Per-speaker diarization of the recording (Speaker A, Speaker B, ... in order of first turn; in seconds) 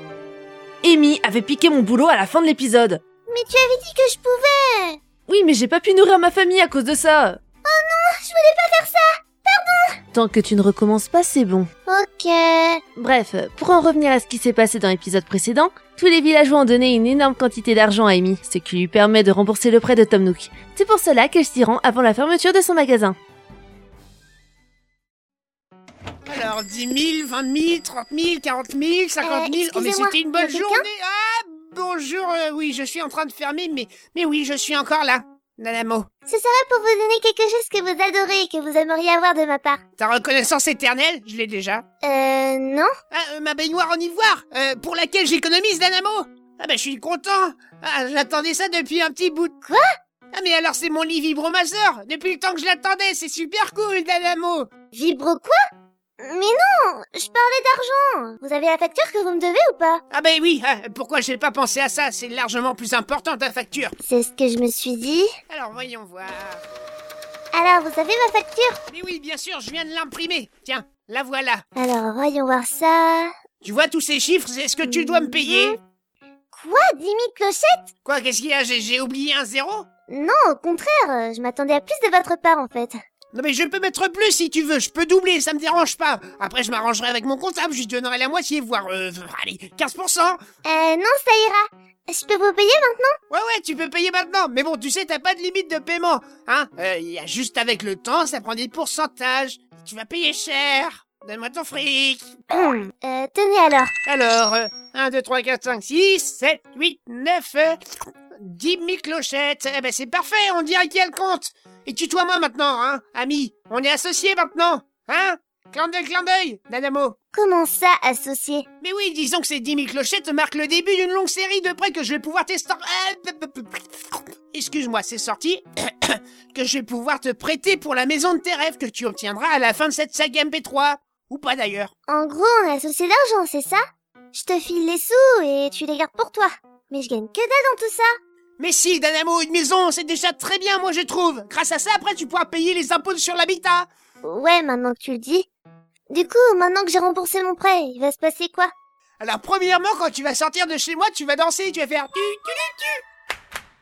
Speaker A: 0.8-3.0, 5.3-7.4, 10.1-11.7, 13.0-23.2
Speaker B: 3.3-5.0, 7.7-10.0, 11.9-12.8, 29.2-30.9, 36.3-39.8, 42.0-42.9, 54.9-55.6, 56.2-60.0, 64.0-65.3, 67.5-68.8, 71.8-73.3, 74.8-75.8, 76.5-77.9, 80.1-83.0, 90.6-93.2, 102.5-103.9, 117.3-118.7, 132.1-133.8, 134.3-138.1, 144.2-145.5, 146.1-148.7
Speaker C: 26.2-36.1, 40.0-41.8, 43.1-49.5, 50.3-54.7, 60.1-63.9, 65.5-66.6, 68.9-71.6, 73.6-75.8, 78.0-79.9, 83.3-90.4, 93.3-102.2, 104.0-107.8, 108.4-117.1, 118.8-131.9, 138.6-143.9, 149.2-153.0